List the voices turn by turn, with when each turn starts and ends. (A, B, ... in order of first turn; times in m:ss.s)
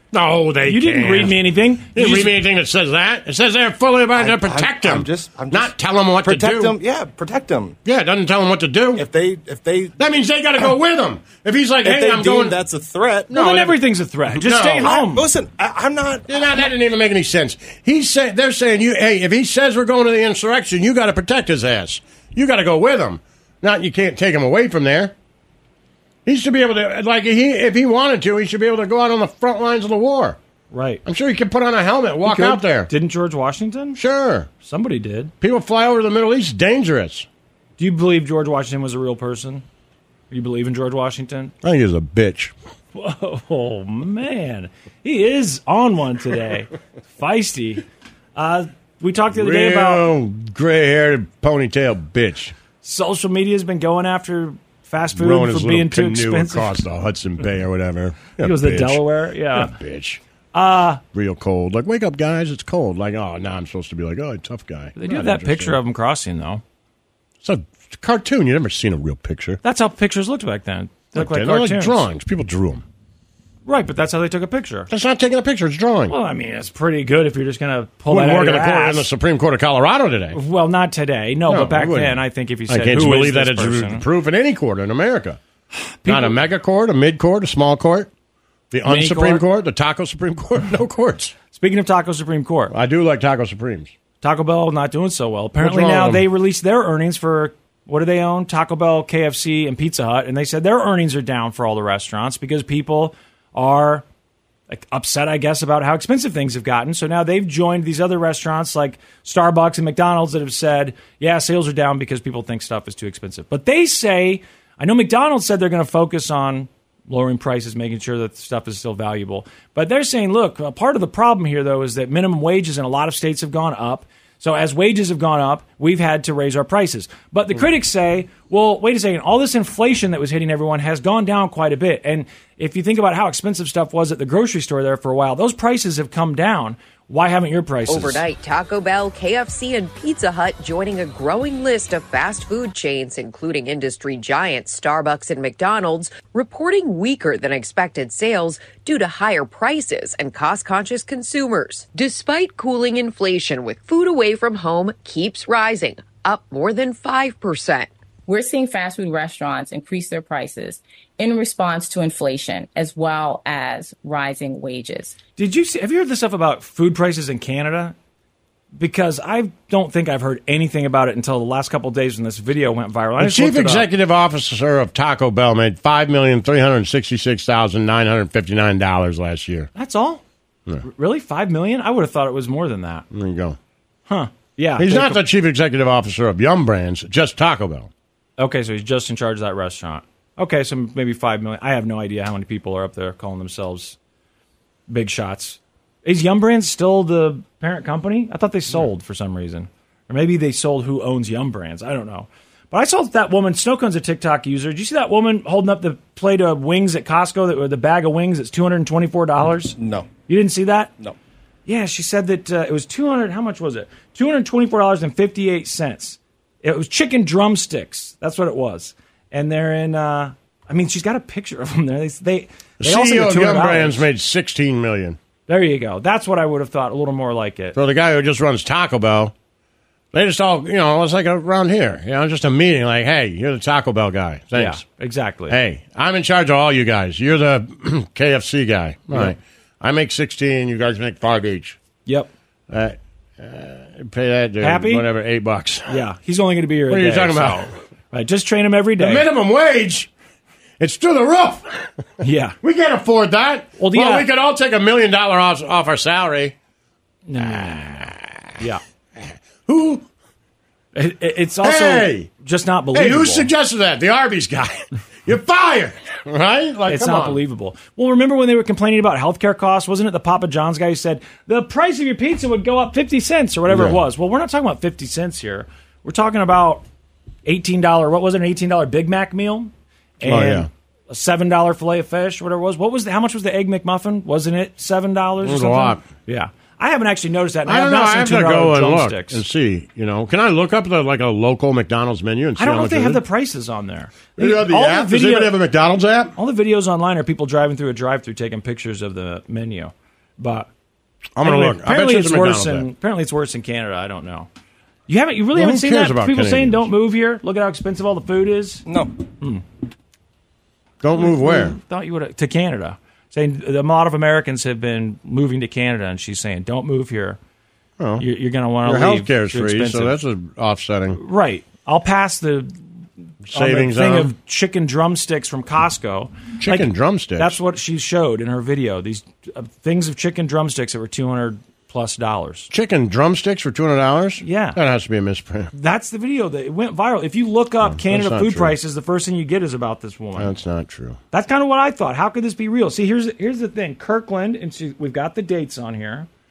0:00.1-0:01.4 A
0:00.7-0:02.4 B
0:02.0-0:06.7 A
0:04.2-0:07.8 C
0:07.8-0:09.0 A
0:09.0-0:10.0 C
0:10.0-0:12.6 A
0:11.8-0:13.3 C
0:13.3-0:15.2 B
0:13.3-0:13.8 A
0:14.4-0:15.0 A
0:14.8-0:16.7 C
0:16.3-0:25.1 A
0:26.2-0:30.4 A
0:30.7-0:31.0 B
0:31.0-0:32.9 A
0:32.2-0:34.0 B
0:34.0-0:34.5 A
0:34.6-0:35.3 B
0:35.4-0:37.3 A
0:37.8-0:39.6 B
0:40.3-0:41.5 B
0:41.6-0:42.5 A
0:43.0-0:47.8 B
0:48.4-0:50.0 B
0:49.3-0:52.5 A
0:52.8-0:56.8 B
0:55.2-0:59.0 A
0:58.4-0:59.7 B
0:59.6-1:00.2 A
1:00.5-1:01.0 B
1:01.1-1:05.8 A
1:05.0-1:06.6 B
1:07.4-1:09.6 A
1:09.6-1:12.0 B
1:11.1-1:12.8 A
1:13.7-1:14.9 B
1:14.9-1:16.1 A
1:16.1-1:19.1 B
1:18.1-1:20.4 A
1:20.3-1:24.0 B
1:21.5-1:25.4 A
1:26.0-1:26.4 B
1:26.1-1:28.1 A
1:28.7-1:31.4 A
1:28.8-1:29.4 B
1:31.5-1:32.8 B
1:32.7-1:33.9 A
1:34.2-1:44.0 B
1:35.6-1:36.2 A
1:44.7-2:18.2 B
2:17.9-2:37.9 D
2:38.3-2:45.2 E
2:45.4-2:48.0 B
2:48.8-2:53.9 B
2:53.2-2:59.7 A
2:59.8-3:00.2 B
3:00.8-3:03.1 B
3:03.1-3:03.6 A
3:04.1-3:05.2 B
3:04.8-3:07.9 A
3:08.4-3:14.0 B
3:14.9-3:29.8 B
3:29.8-3:30.1 C
3:30.3-3:30.9 B
3:31.7-3:44.1 B
3:42.8-3:45.2 A
3:45.5-3:47.8 B
3:47.7-3:49.3 A
3:50.1-3:54.8 A
3:54.6-3:55.6 B
3:55.5-4:01.8 A
4:02.7-4:06.0 A
4:04.6-4:05.1 B
4:05.9-4:09.2 B
4:06.9-4:07.6 A
4:09.0-4:10.1 A
4:10.8-4:11.8 A
4:12.2-4:12.6 B
4:12.6-4:16.5 A
4:13.8-4:14.3 B
4:17.3-4:18.8 B
4:19.7-4:20.0 A
4:21.0-4:23.5 B
4:21.6-4:22.3 A
4:22.9-4:27.4 A
4:26.9-4:36.8 B
4:33.7-4:34.0 A
4:37.4-4:49.4 B
4:40.2-4:40.7 A
4:45.4-4:46.0 A
4:47.7-4:53.2 A
4:52.6-4:55.5 B
4:54.4-4:56.4 A
4:56.4-5:00.7 B
5:01.4-5:02.8 A
5:01.4-5:04.5 B
5:05.1-5:08.9 B
5:05.6-5:06.9 A
5:08.9-5:09.1 C
5:11.0-5:11.8 A
5:11.2-5:17.4 B
5:18.0-5:18.2 A
5:18.2-5:20.2 B
5:18.8-5:21.2 A
5:21.2-5:22.8 B
5:23.5-5:24.3 A
5:23.5-5:32.7 B
5:26.6-5:27.6 A
5:32.7-5:35.7 A
5:34.4-5:34.8 B
5:35.7-5:40.5 B
5:37.8-5:38.7 A
5:40.4-5:41.2 A
5:41.3-5:46.3 B